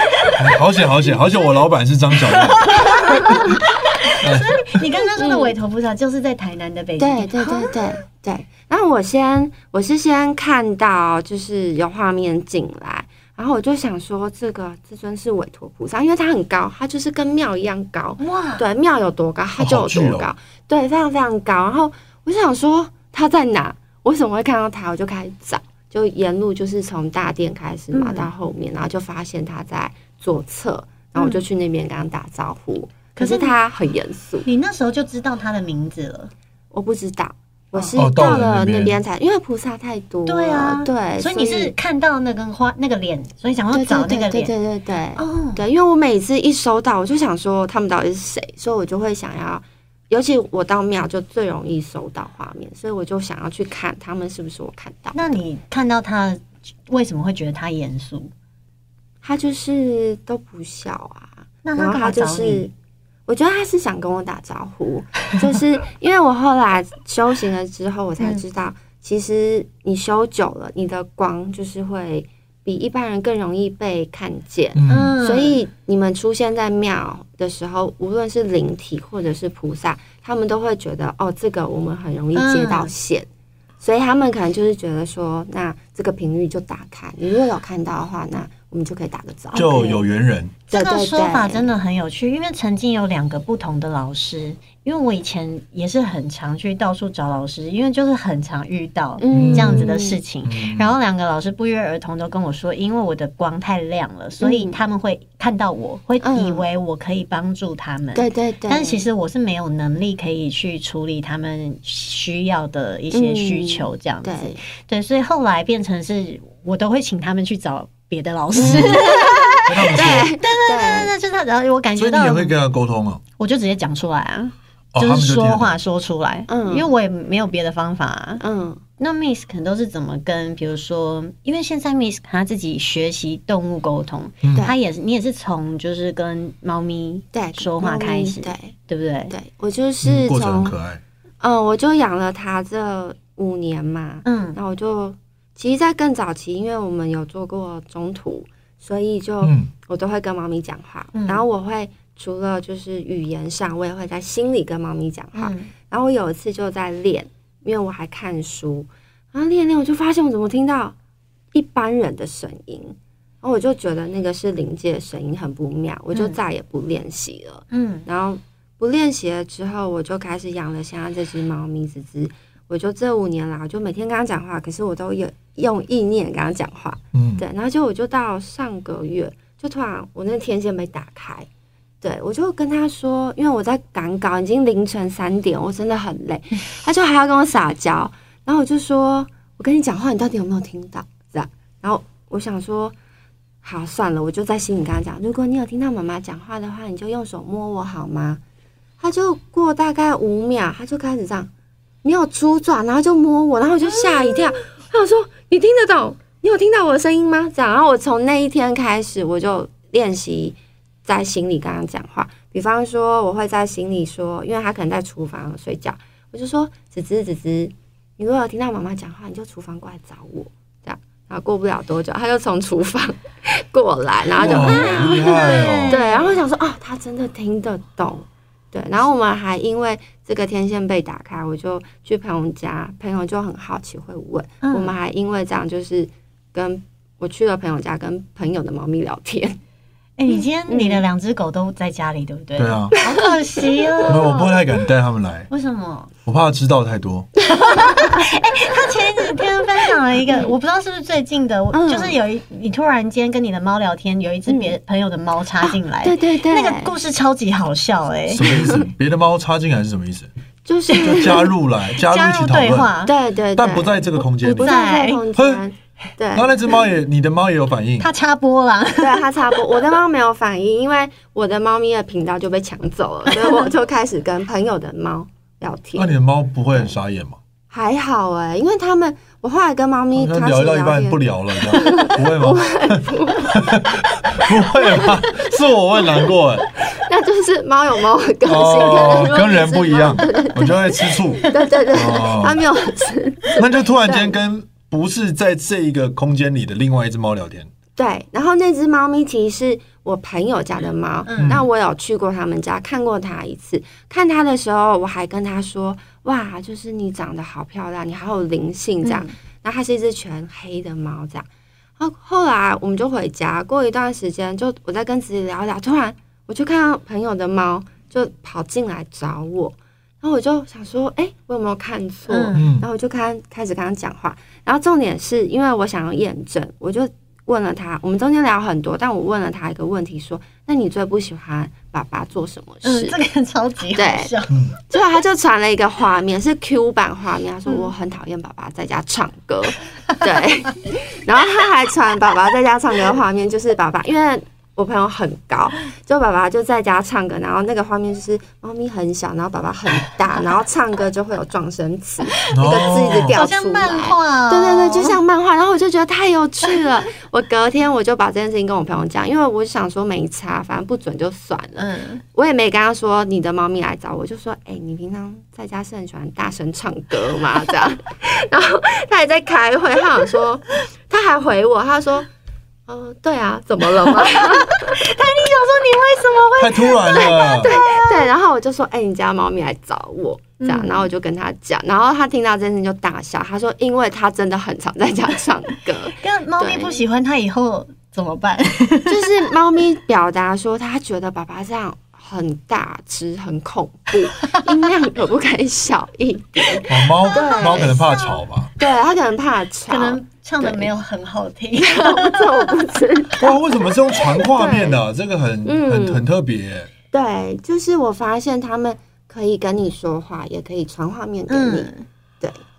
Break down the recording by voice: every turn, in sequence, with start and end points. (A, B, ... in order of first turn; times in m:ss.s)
0:00.4-0:03.3 A
0:02.6-0:08.0 B
0:04.2-0:04.8 A
0:05.2-0:05.5 C
0:07.0-0:34.4 C
0:18.2-0:18.6 B
0:19.6-0:20.3 A
0:27.9-0:28.3 B
0:31.2-0:31.4 B
0:33.2-0:33.6 B
0:34.4-0:36.3 B
0:36.7-0:41.7 C
0:37.7-0:38.0 B
0:38.0-0:39.0 A
0:40.2-0:44.5 B
0:43.7-0:55.2 C
0:45.2-0:45.6 B
0:55.1-0:58.3 B
0:59.2-1:02.7 C
1:01.6-1:02.7 B
1:03.3-1:23.2 C
1:14.7-1:15.1 A
1:14.9-1:15.6 B
1:22.3-1:22.9 B
1:23.8-1:30.0 C
1:29.5-1:30.6 A
1:30.7-1:31.6 C
1:30.7-2:02.5 B
1:39.2-1:40.2 C
1:39.3-1:41.0 A
1:44.4-1:44.8 C
1:46.2-1:46.6 C
1:48.1-1:49.0 C
1:53.1-1:54.6 C
1:58.6-2:01.1 C
1:58.6-1:59.0 A
1:59.7-2:00.3 A
2:01.9-2:03.2 A
2:03.4-2:08.4 B
2:04.9-2:05.7 A
2:06.5-2:06.9 C
2:08.4-2:08.8 C
2:09.0-2:19.3 B
2:14.4-2:14.7 A
2:17.3-2:18.7 C
2:19.3-2:20.8 C
2:20.0-2:21.0 A
2:21.4-2:40.9 C
2:24.2-2:24.6 B
2:29.4-2:29.7 A
2:31.1-2:31.4 B
2:35.4-2:35.7 B
2:41.5-3:01.5 C
2:47.7-2:48.0 B
2:57.1-2:57.4 A
3:02.0-3:12.9 C
3:13.6-3:18.4 C
3:19.0-3:21.5 C
3:22.0-3:59.6 C
3:44.4-3:46.0 A
3:44.4-3:46.4 B
3:54.6-3:54.9 B
4:00.2-4:04.3 B
4:00.7-4:01.0 C
4:02.6-4:02.9 A
4:04.1-4:04.5 C
4:04.1-4:05.5 A
4:05.5-4:06.1 B
4:06.2-4:07.3 A
4:07.4-4:18.4 B
4:10.3-4:10.5 C
4:11.7-4:12.2 C
4:14.5-4:14.7 C
4:15.6-4:16.9 C
4:18.3-4:20.3 A
4:18.4-4:18.8 C
4:20.6-4:21.5 C
4:20.9-4:21.1 B
4:21.0-4:22.9 A
4:22.0-4:23.1 B
4:23.0-4:26.7 C
4:23.5-4:24.7 A
4:24.6-4:25.2 B
4:25.3-4:25.6 A
4:26.3-4:28.1 A
4:28.0-4:29.2 B
4:29.0-4:36.2 C
4:36.0-4:37.4 A
4:37.7-4:43.6 C
4:40.1-4:46.7 A
4:46.8-4:54.3 C
4:48.4-4:52.6 A
4:53.6-4:57.7 A
4:58.0-5:11.5 C
5:01.2-5:01.6 B
5:01.4-5:01.6 A
5:09.0-5:09.3 B
5:12.0-5:33.2 C
5:22.3-5:22.6 B
5:22.5-5:22.8 A
5:32.8-5:34.8 B
5:33.9-5:34.3 C
5:34.9-6:12.3 C
5:52.5-5:53.4 A
5:53.3-5:55.2 B
6:01.8-6:02.2 B
6:12.9-6:15.0 C
6:14.3-6:18.3 B
6:16.6-6:17.7 A
6:16.6-6:27.0 C
6:20.6-6:21.1 B
6:26.2-6:29.4 B
6:29.1-6:38.0 C
6:36.9-6:38.7 A
6:37.2-6:38.4 B
6:38.8-6:40.9 C
6:39.9-6:42.8 B
6:41.8-6:43.6 C
6:43.4-6:46.9 A
6:44.3-6:45.0 C
6:45.6-6:46.2 C
6:47.1-6:51.9 C
6:51.5-6:52.0 B